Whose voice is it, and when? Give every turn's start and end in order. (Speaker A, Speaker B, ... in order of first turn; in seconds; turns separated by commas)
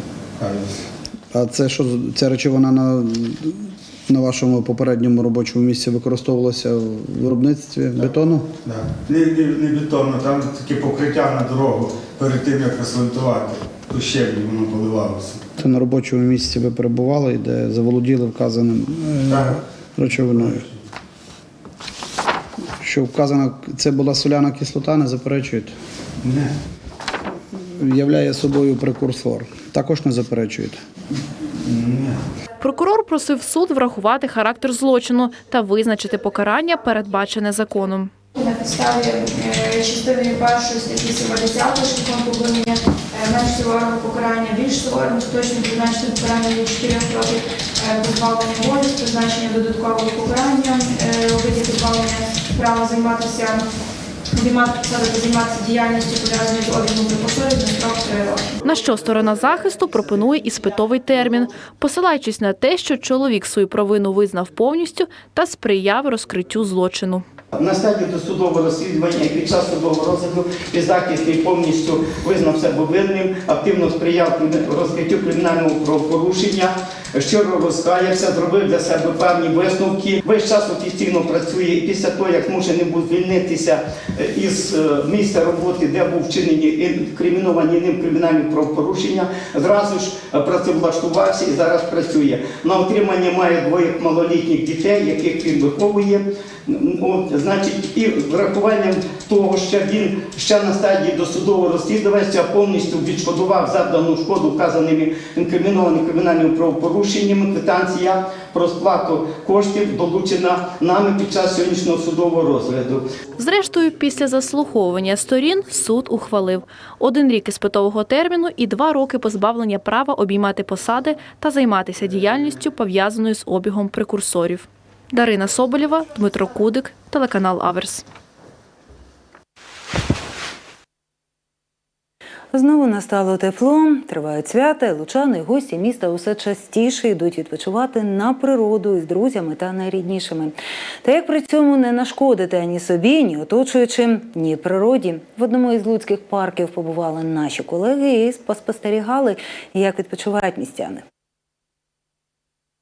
Speaker A: 0.4-0.7, Speaker B: 1.3-8.5, Speaker A: 8.6-15.4, Speaker B: 15.6-20.6, Speaker A: 19.3-19.6, Speaker A: 20.4-20.7, Speaker B: 22.8-25.7, Speaker A: 26.2-26.5, Speaker B: 27.8-30.8, Speaker A: 31.6-32.2, Speaker C: 32.6-38.1, Speaker D: 38.3-53.7, Speaker D: 54.3-58.6, Speaker C: 58.6-67.2, Speaker E: 67.5-113.0, Speaker C: 113.4-128.0, Speaker F: 132.5-151.0